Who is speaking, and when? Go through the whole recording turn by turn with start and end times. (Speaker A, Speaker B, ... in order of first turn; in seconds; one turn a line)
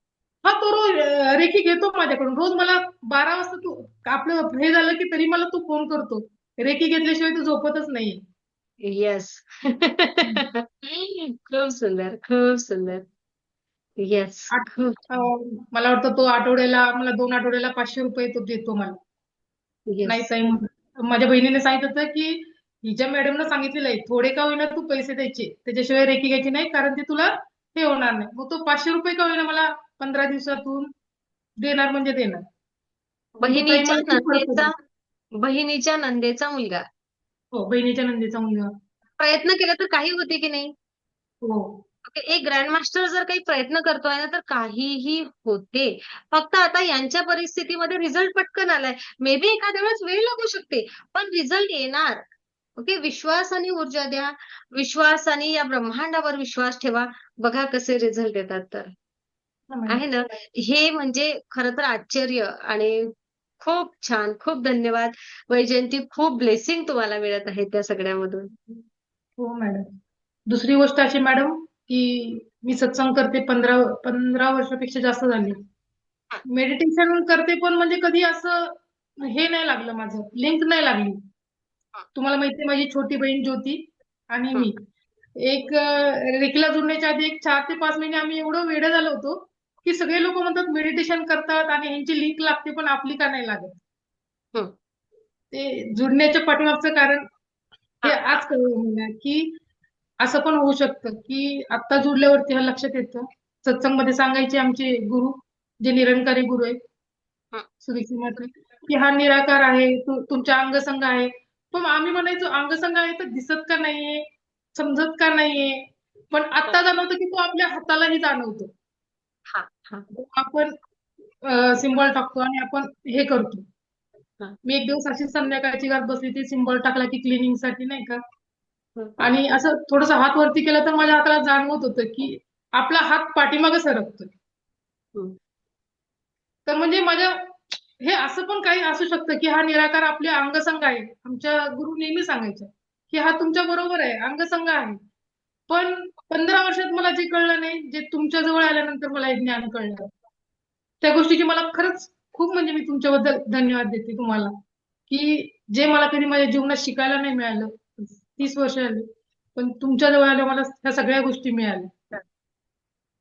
Speaker A: 0.4-8.2
Speaker B: 8.8-13.0
Speaker B: 14.0-15.0
Speaker A: 14.5-19.0
Speaker B: 19.9-20.3
Speaker A: 20.0-30.9
Speaker A: 31.6-32.4
Speaker B: 33.4-34.7
Speaker A: 33.5-34.7
Speaker B: 35.4-36.9
Speaker A: 37.5-38.7
Speaker B: 39.2-40.7
Speaker A: 41.4-41.8
Speaker B: 42.0-52.2
Speaker B: 52.8-58.9
Speaker A: 59.7-60.0
Speaker B: 59.9-68.8
Speaker A: 69.4-69.9
Speaker A: 70.5-75.6
Speaker A: 76.5-81.2
Speaker A: 82.1-84.8
Speaker A: 85.4-93.8
Speaker A: 95.5-97.2
Speaker B: 98.0-98.4
Speaker A: 98.0-99.5
Speaker A: 100.2-106.8
Speaker A: 107.8-114.2
Speaker A: 114.8-118.7
Speaker B: 119.5-120.0
Speaker A: 120.1-120.7
Speaker A: 121.4-123.6
Speaker A: 124.6-128.2
Speaker B: 128.9-129.2
Speaker A: 129.2-134.3
Speaker A: 136.7-145.0
Speaker A: 145.7-150.1
Speaker A: 151.0-154.5
Speaker A: 155.1-161.9